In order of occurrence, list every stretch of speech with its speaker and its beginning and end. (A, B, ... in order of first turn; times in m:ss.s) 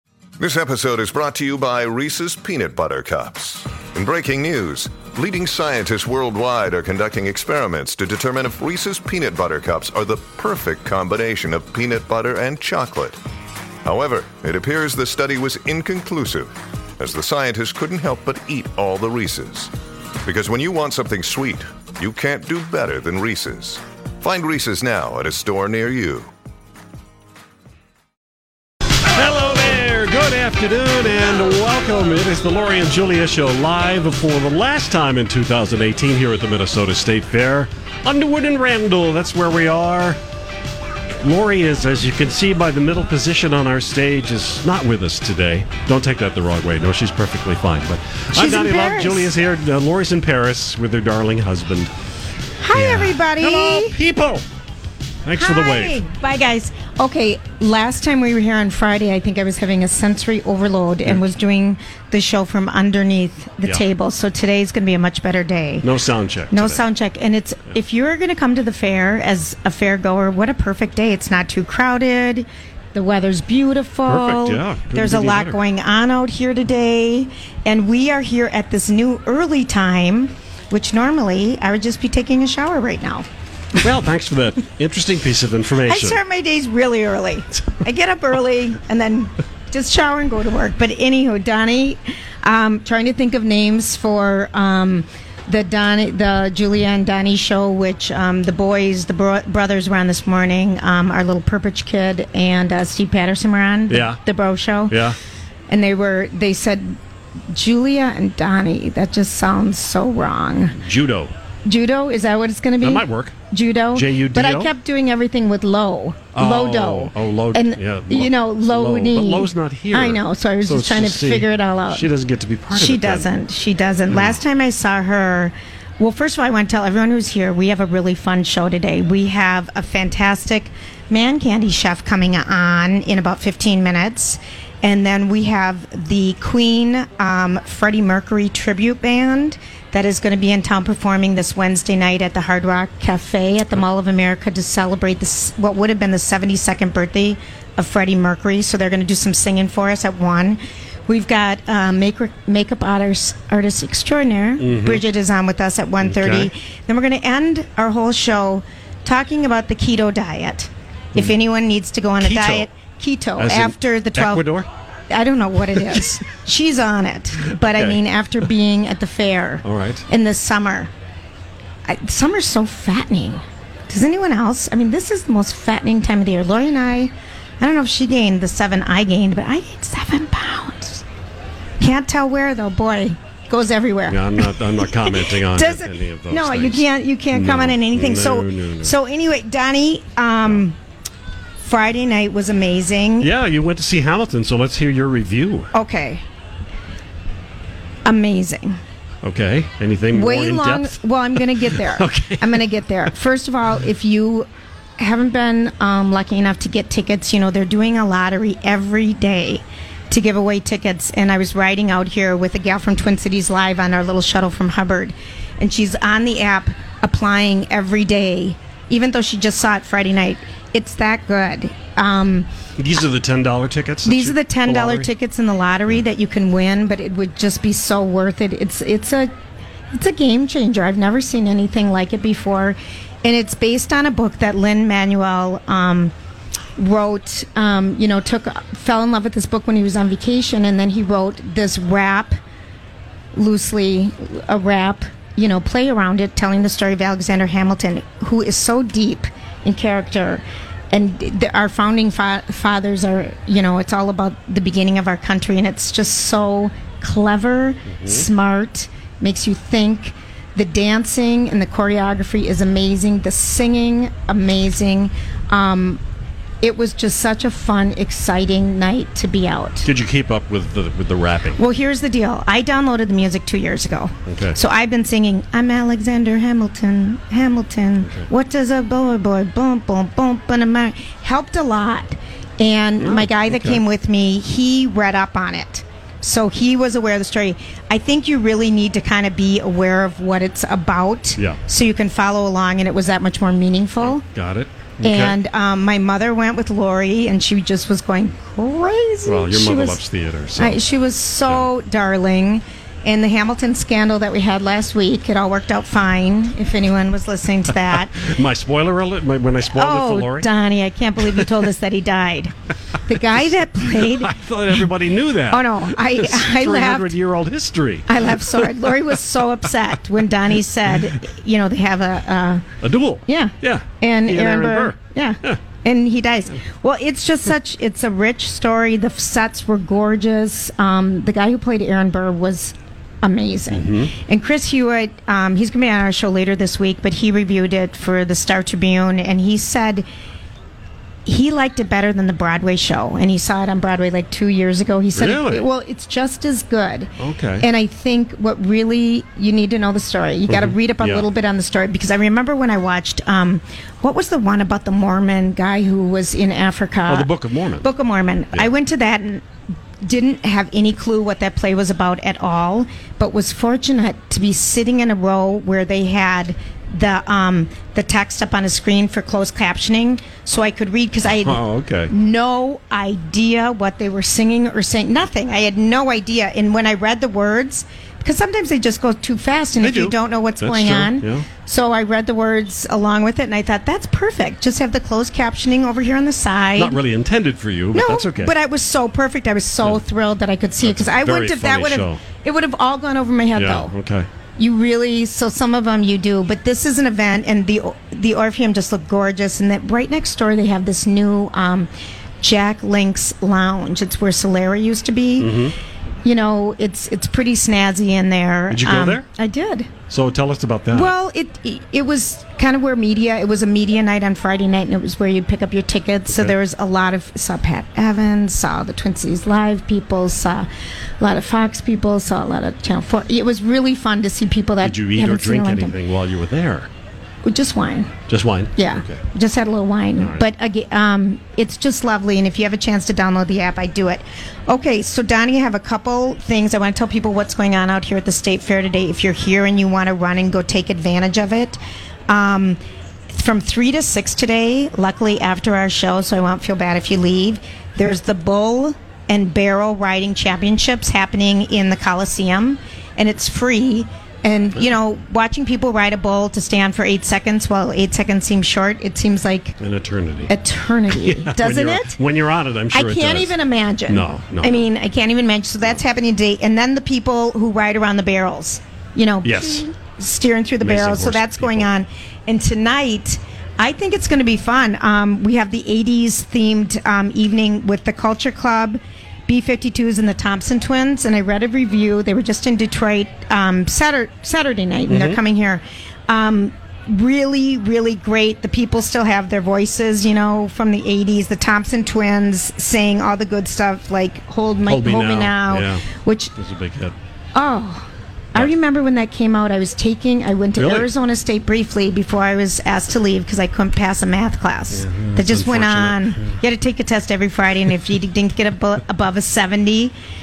0:00.4-0:13.2 A
0:13.8-0:19.7 A
0:20.2-0:26.3 A
0:29.1-0:40.2 B
0:41.2-0:51.9 B
0:48.3-0:49.3 C
0:52.6-0:54.0 C
0:52.7-0:54.4 B
0:55.2-0:56.0 B
0:55.4-1:05.9 C
1:05.8-1:06.8 B
1:06.5-1:23.3 C
1:14.1-1:15.6 B
1:23.8-1:26.2 B
1:25.9-1:45.0 C
1:43.9-1:44.2 B
1:44.9-1:45.2 B
1:45.7-1:47.0 C
1:47.5-1:50.8 C
1:50.8-1:51.3 B
1:51.7-2:02.1 C
1:52.8-1:53.4 B
1:53.9-1:54.7 B
1:56.3-2:03.3 B
2:02.7-2:44.5 C
2:04.1-2:04.4 B
2:34.6-2:35.0 B
2:36.0-2:36.5 B
2:42.2-2:42.7 B
2:43.4-2:44.7 B
2:45.1-2:50.9 C
2:47.6-2:48.0 B
2:49.6-2:50.0 B
2:51.9-3:01.0 C
3:01.8-3:10.8 C
3:04.1-3:09.0 B
3:11.6-3:13.3 C
3:13.2-3:15.7 B
3:15.7-3:16.2 C
3:18.0-3:18.8 C
3:19.2-3:22.6 B
3:20.1-3:24.5 C
3:25.0-3:42.5 C
3:42.8-3:45.1 B
3:44.1-3:49.3 C
3:49.9-3:56.1 C
3:56.8-4:02.4 C
4:03.4-4:26.0 C
4:17.9-4:18.3 B
4:26.6-4:29.9 C
4:29.8-4:31.6 B
4:31.6-4:54.2 C
4:34.3-4:34.6 B
4:43.0-4:43.8 B
4:54.0-4:55.4 B
4:55.0-5:00.0 C
4:59.3-5:00.8 B
5:00.6-5:08.3 C
5:08.2-5:10.5 B
5:09.7-5:12.5 C
5:11.2-5:11.5 B
5:13.1-5:14.4 C
5:13.9-5:19.1 B
5:15.5-5:17.2 C
5:18.1-5:22.6 C
5:22.8-5:25.6 B
5:23.3-5:40.1 C
5:33.7-5:34.1 B
5:41.3-5:59.4 C
5:45.1-5:45.6 B
5:47.2-5:47.7 B
5:50.5-5:51.3 B
5:57.1-5:57.9 B
6:00.0-6:27.0 C
6:11.4-6:12.1 B
6:19.8-6:21.5 B
6:26.8-6:28.5 B
6:27.9-6:33.9 C
6:30.8-6:32.2 B
6:33.6-6:34.3 B
6:34.6-6:41.9 C
6:42.4-6:45.7 C
6:45.4-6:45.7 B
6:46.2-6:49.9 C
6:48.7-6:49.3 B
6:50.1-6:51.1 B
6:50.9-7:00.7 C
6:56.3-6:56.6 B
7:01.2-7:06.0 C
7:04.8-7:06.9 B
7:07.4-7:08.1 C
7:08.3-7:09.2 B
7:08.8-7:22.8 C
7:10.2-7:10.4 B
7:23.3-7:39.8 C
7:39.8-7:40.5 B
7:40.5-7:42.2 C
7:41.1-7:43.6 B
7:42.9-8:16.5 C
7:44.1-7:44.9 B
7:49.4-7:49.8 B
7:50.8-7:51.9 B
8:05.1-8:05.4 B
8:14.9-8:16.1 B
8:16.6-8:17.2 B
8:17.6-8:30.1 C
8:20.8-8:21.1 B
8:24.9-8:26.6 B